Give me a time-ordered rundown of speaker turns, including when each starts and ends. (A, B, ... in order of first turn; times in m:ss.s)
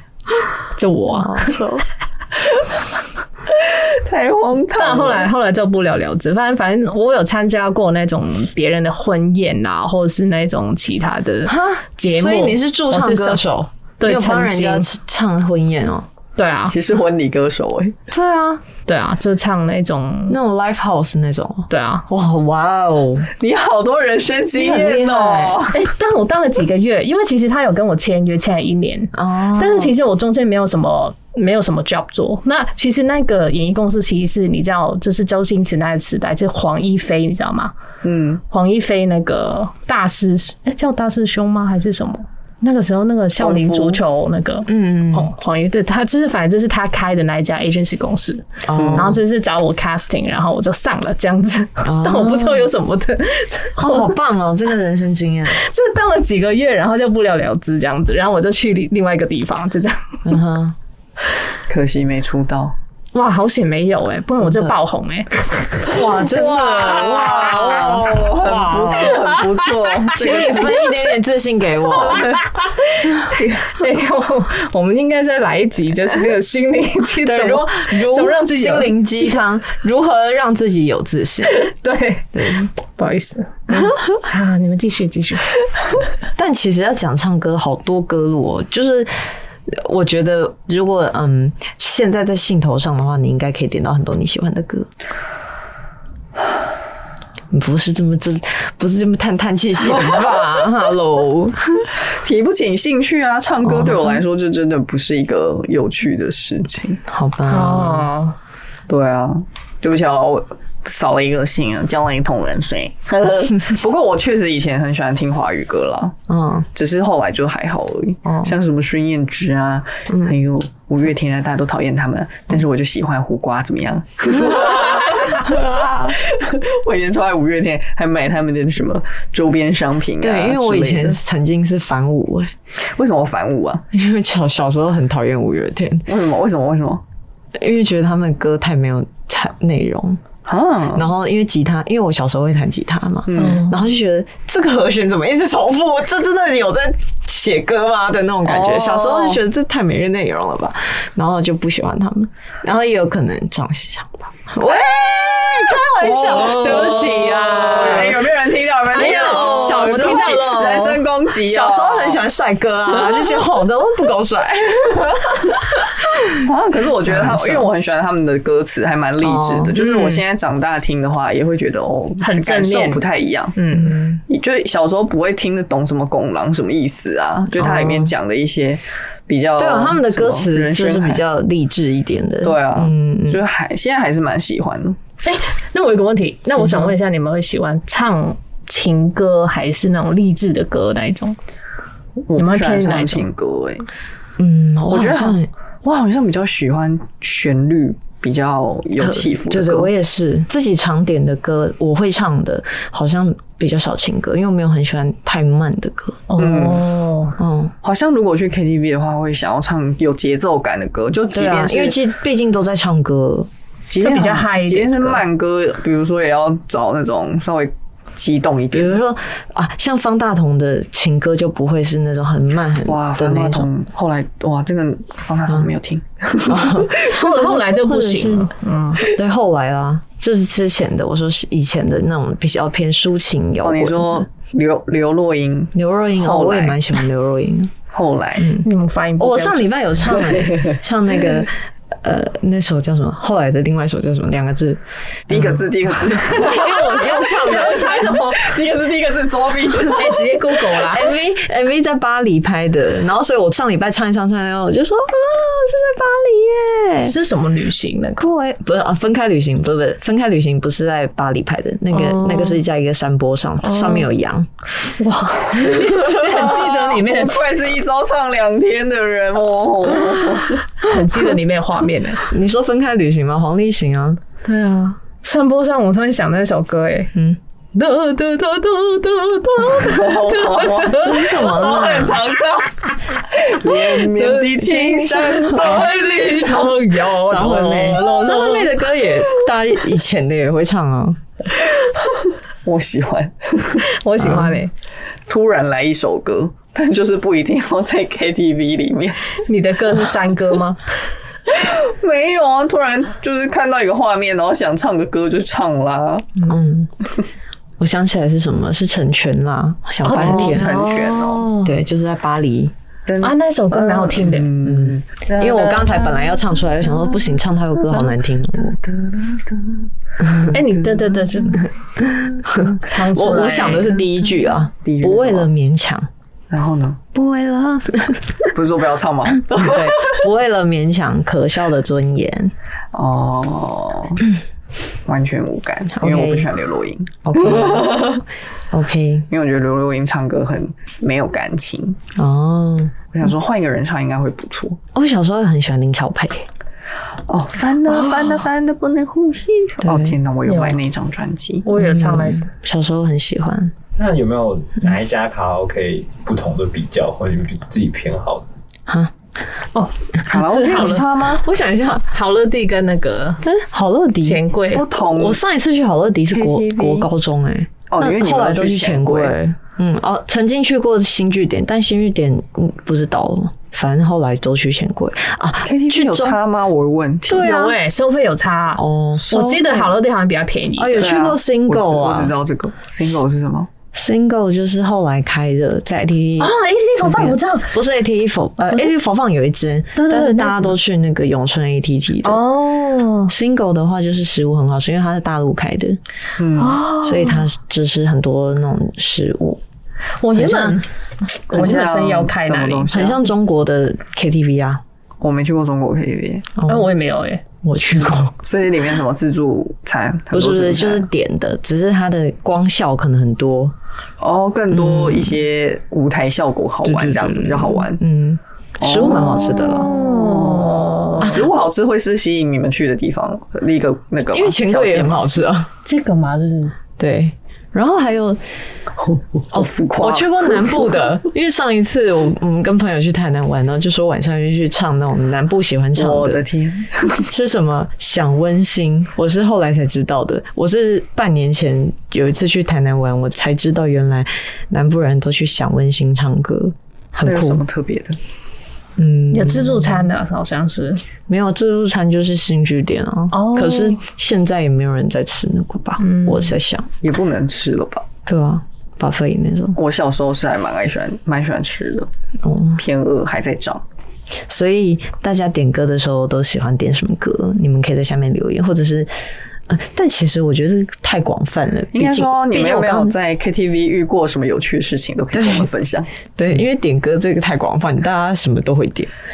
0:00.8-0:01.6 A
0:01.1-0:01.8 B
0:03.5-0:05.3 C
0:04.7-0:13.4 A
0:11.4-0:16.1 B
0:14.0-0:14.9 A
0:16.4-0:16.7 A
0:16.7-0:18.0 C
0:18.1-0:18.6 B
0:18.8-0:20.4 A
0:20.3-0:23.3 B
0:21.7-0:22.0 A
0:23.4-0:25.8 C
0:24.6-0:25.6 B
0:25.7-0:37.7 A
0:29.1-0:29.9 B
0:38.0-0:38.4 C
0:38.5-0:54.1 A
0:43.4-0:44.0 C
0:44.7-0:45.3 B
0:48.6-0:49.2 B
0:48.8-0:49.2 C
0:51.8-0:52.7 B
0:53.8-0:55.6 B
0:55.5-1:00.2 A
1:00.2-1:00.8 B
1:01.7-1:02.8 C
1:03.1-1:06.0 A
1:04.4-1:04.7 B
1:05.9-1:09.2 B
1:06.0-1:10.8 C
1:06.8-1:09.4 A
1:10.1-1:12.4 B
1:12.2-1:19.3 A
1:13.3-1:13.7 C
1:17.2-1:21.7 B
1:21.5-1:25.5 A
1:22.3-1:22.7 B
1:26.4-1:34.9 B
1:37.5-1:41.9 B
1:42.1-1:47.0 C
1:43.6-1:44.2 B
1:47.0-1:48.1 B
1:47.5-1:48.4 A
1:48.9-1:56.2 C
1:56.3-1:56.7 B
1:56.7-2:11.2 C
1:58.2-1:58.5 B
2:05.2-2:06.1 B
2:10.2-2:12.5 B
2:12.9-2:13.8 C
2:13.9-2:16.1 B
2:16.1-2:17.0 C
2:17.5-2:20.2 B
2:20.4-2:21.0 C
2:20.9-2:38.3 B
2:23.3-2:23.7 C
2:23.4-2:23.7 A
2:28.4-2:29.4 C
2:36.0-2:42.3 C
2:36.3-2:37.0 A
2:38.9-2:46.4 B
2:38.9-2:40.8 A
2:46.4-2:53.6 C
2:47.0-2:47.7 B
2:49.2-2:50.2 B
2:52.2-2:53.9 A
2:53.7-2:54.2 B
2:54.3-3:01.2 C
2:57.5-2:58.1 B
2:59.6-3:03.4 B
3:02.4-3:05.0 C
3:05.2-3:11.4 A
3:06.6-3:06.9 B
3:12.3-3:13.9 C
3:12.4-3:13.2 A
3:14.4-3:15.5 B
3:14.9-3:19.9 C
3:19.0-3:26.2 B
3:26.3-3:27.4 A
3:26.4-3:26.8 C
3:27.4-3:27.7 B
3:27.8-3:32.0 C
3:31.3-3:33.5 B
3:33.9-3:39.0 C
3:34.0-3:35.2 A
3:38.7-3:43.7 B
3:42.8-3:47.0 C
3:46.5-3:54.2 B
3:47.0-3:49.1 A
3:53.6-3:56.9 C
3:55.7-3:57.7 B
3:57.9-3:58.5 C
3:58.4-4:08.1 B
3:58.6-3:59.7 A
4:00.1-4:00.8 C
4:05.3-4:10.3 C
4:06.4-4:08.6 A
4:09.8-4:11.1 A
4:10.8-4:17.2 B
4:17.0-4:18.2 A
4:18.2-4:24.5 B
4:21.9-4:22.6 A
4:23.7-4:24.1 A
4:25.0-4:30.7 C
4:25.5-4:27.4 A
4:30.8-4:32.3 A
4:32.3-4:34.2 B
4:34.4-4:37.1 A
4:37.1-4:37.4 B
4:37.7-4:41.6 A
4:39.8-4:46.7 C
4:40.9-4:42.2 B
4:43.6-4:48.8 A
4:44.4-4:46.0 B
4:47.2-4:51.2 B
4:51.7-4:53.8 C
4:53.9-4:54.7 A
4:54.2-4:54.6 B
4:55.3-4:59.4 C
4:59.4-5:00.8 A
5:01.5-5:06.4 C
5:06.5-5:06.9 B
5:07.8-5:10.8 B
5:10.0-5:11.7 A
5:10.1-5:11.5 C
5:11.6-5:12.7 B
5:13.1-5:21.1 C
5:13.2-5:14.5 A
5:14.6-5:18.8 B
5:20.2-5:20.5 B
5:20.5-5:21.7 A
5:22.0-5:26.1 B
5:22.6-5:24.0 A
5:24.8-5:25.5 C
5:26.5-5:27.0 C
5:27.1-5:28.5 B
5:28.5-5:30.2 C
5:29.3-5:32.5 B
5:32.9-5:34.2 C
5:35.0-5:38.2 C
5:36.0-5:36.5 B
5:37.2-5:39.3 B
5:39.3-5:42.0 C
5:42.1-5:43.0 B
5:43.1-5:44.8 C
5:44.9-5:46.5 B
5:47.3-5:51.7 C
5:47.9-5:48.2 B
5:49.8-5:50.1 B
5:50.5-5:50.8 A
5:51.6-5:52.5 A
5:51.8-5:53.7 B
5:54.0-5:58.4 D
5:59.7-6:01.0 A
6:00.3-6:01.4 C
6:01.4-6:02.1 B
6:02.1-6:03.4 A
6:03.4-6:04.4 B
6:04.2-6:04.8 A
6:04.7-6:05.4 C
6:05.1-6:16.4 B
6:06.3-6:07.1 C
6:07.9-6:09.4 C
6:15.6-6:17.5 C
6:17.3-6:17.7 B
6:17.3-6:21.1 A
6:18.8-6:19.8 B
6:20.8-6:22.3 B
6:21.0-6:23.7 C
6:23.9-6:32.4 B
6:26.4-6:27.7 A
6:28.6-6:28.9 A
6:30.0-6:30.7 A
6:32.2-6:33.3 A
6:33.3-6:36.0 B
6:36.4-6:36.8 C
6:36.6-6:37.4 A
6:37.0-6:39.6 B
6:40.2-6:40.8 A
6:40.3-6:40.8 B
6:41.4-6:42.9 A
6:41.5-6:43.2 C
6:42.9-6:44.8 B
6:45.2-6:46.5 C
6:46.6-6:46.9 B
6:46.6-6:47.4 A
6:47.6-6:48.3 B
6:48.4-6:51.1 C
6:50.3-6:53.7 B
6:54.2-6:58.0 C
6:54.7-6:55.4 B
6:56.8-6:59.9 B
6:58.8-7:05.2 C
6:59.2-7:01.4 A
7:04.3-7:05.7 B
7:05.8-7:06.7 A
7:07.0-7:08.4 B
7:09.0-7:10.7 C
7:09.5-7:16.4 B
7:16.0-7:17.3 C
7:17.2-7:27.6 B
7:27.2-7:28.2 C
7:29.0-7:30.1 B
7:29.3-7:31.0 A
7:31.3-7:36.9 B
7:33.3-7:34.0 A
7:36.0-7:36.5 A
7:37.0-7:38.1 C
7:38.3-7:39.8 B
7:39.8-7:42.1 C
7:42.4-7:42.8 B
7:42.8-7:43.8 C
7:44.5-7:49.1 B
7:49.7-7:53.1 B
7:51.9-7:56.1 C
7:55.3-7:55.7 B
7:56.4-7:59.1 B